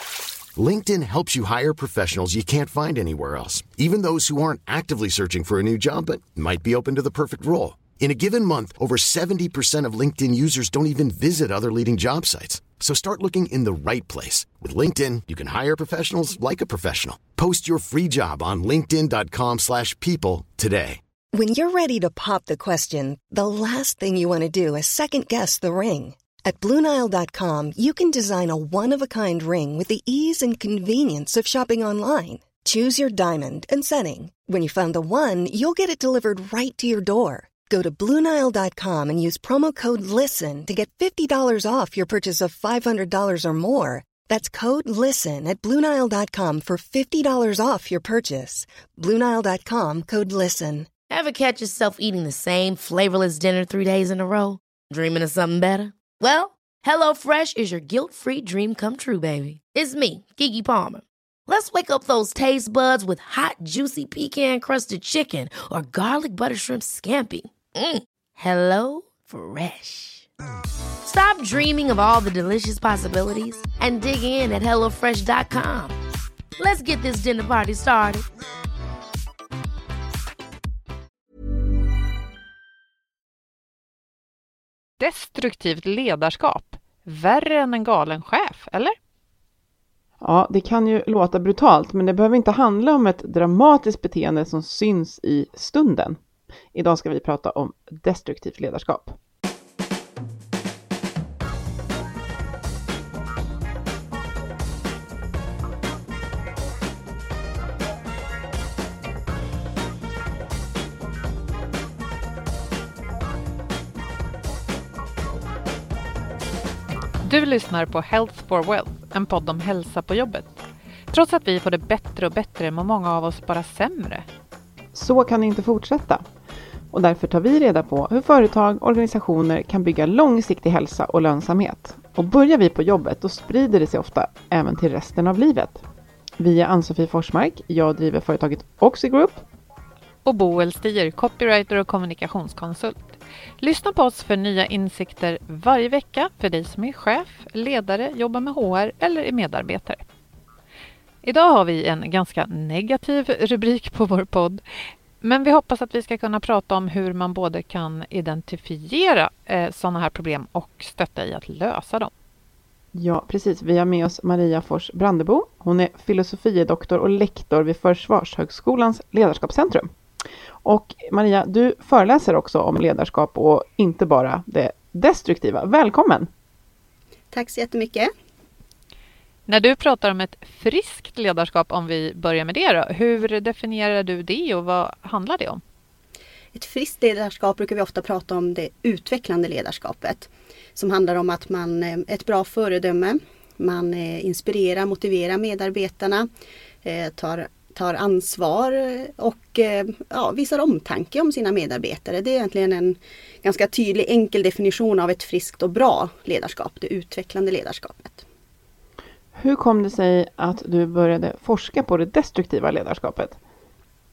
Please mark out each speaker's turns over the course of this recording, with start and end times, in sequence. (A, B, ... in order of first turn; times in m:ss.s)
0:00.6-0:21.0 A
0:21.3-0:50.9 B
0:51.1-1:10.3 C
1:11.0-1:16.0 C
1:16.6-1:18.2 C
1:25.0-1:29.0 D
1:30.2-1:36.2 E
1:36.7-1:39.2 E
1:57.2-2:00.6 D
2:01.1-2:04.2 D
2:04.9-2:06.2 E
2:06.9-2:15.8 E
2:16.4-2:19.4 E
2:20.2-2:23.0 D
2:23.6-2:30.0 D
2:31.2-2:34.6 D
2:35.2-2:42.1 D
2:42.9-2:49.9 E
2:50.6-2:56.3 E
2:57.3-2:58.1 F
2:59.5-3:05.6 D
3:06.5-3:16.3 F
3:16.8-3:28.2 F
3:29.3-3:33.4 E